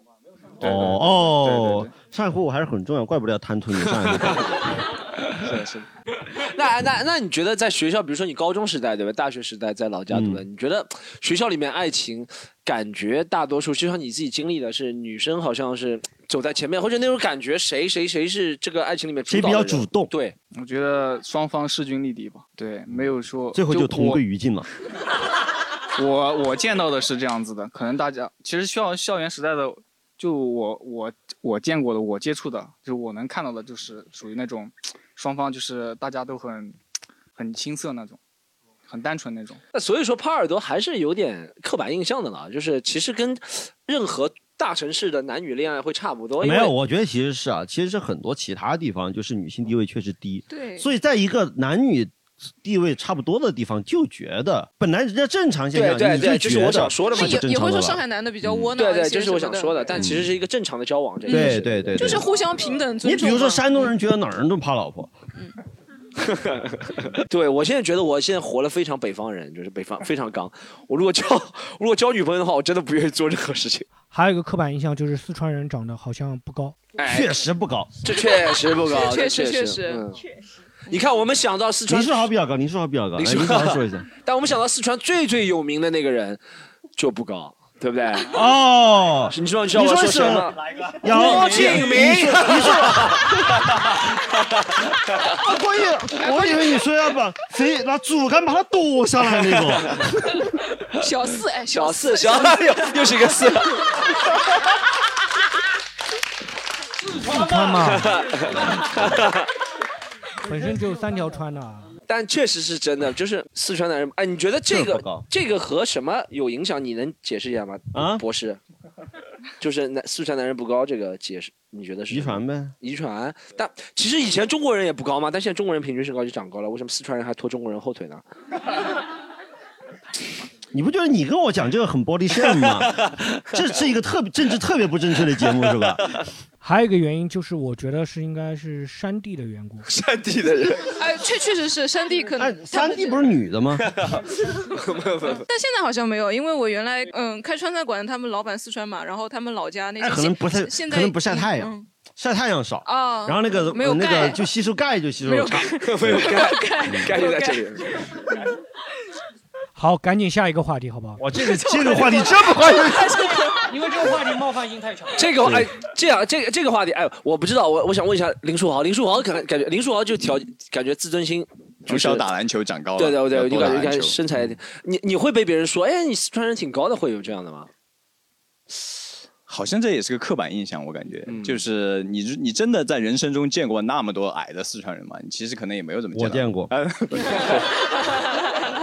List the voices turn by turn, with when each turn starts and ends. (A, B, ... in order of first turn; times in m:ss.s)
0:00.6-0:04.6 A
0:00.6-0:01.9 B
0:04.0-0:04.3 C
0:05.4-0:05.8 C
0:05.4-0:05.8 B
0:06.3-0:20.4 C
0:10.1-0:10.4 A
0:19.3-0:20.1 A
0:20.5-0:24.2 B
0:22.9-0:24.7 A
0:26.0-0:36.8 B
0:37.3-0:38.2 B
0:38.9-0:39.6 B
0:39.7-0:46.7 C
0:46.4-0:58.7 A
0:50.5-0:50.9 D
0:55.7-0:57.5 C
0:57.1-0:59.9 D
0:58.8-1:02.2 C
1:00.0-1:00.3 A
1:01.3-1:03.9 D
1:01.3-1:02.3 A
1:03.0-1:05.1 A
1:06.3-1:13.9 C
1:14.1-1:16.8 E
1:17.0-1:17.4 C
1:17.0-1:18.0 A
1:18.0-1:20.2 C
1:18.1-1:20.2 D
1:20.9-1:22.3 C
1:21.9-1:24.1 A
1:23.2-1:26.4 C
1:27.0-1:28.4 C
1:28.3-1:33.7 A
1:29.3-1:34.5 C
1:35.3-1:40.1 A
1:36.2-1:36.6 D
1:39.5-1:40.1 C
1:41.0-1:43.1 D
1:41.7-1:44.0 C
1:47.2-1:48.2 E
1:47.8-1:49.4 C
1:50.4-1:51.9 E
1:52.1-1:58.6 C
1:54.7-1:55.2 A
1:57.9-1:58.2 A
1:59.6-2:08.2 C
2:02.1-2:02.7 A
2:10.7-2:16.2 A
2:16.6-2:19.9 E
2:19.9-2:20.9 C
2:21.0-2:23.3 D
2:22.4-2:24.0 A
2:23.9-2:25.5 C
2:25.5-2:31.9 D
2:30.0-2:36.3 A
2:32.8-2:34.4 D
2:35.2-2:38.1 D
2:35.8-2:37.9 C
2:39.8-2:41.2 E
2:41.2-2:43.3 A
2:41.4-2:43.9 D
2:45.2-2:52.2 C
2:45.4-2:45.7 A
2:51.9-2:54.2 F
2:53.0-2:57.7 C
2:59.5-3:07.7 F
3:01.3-3:01.6 C
3:06.1-3:06.7 A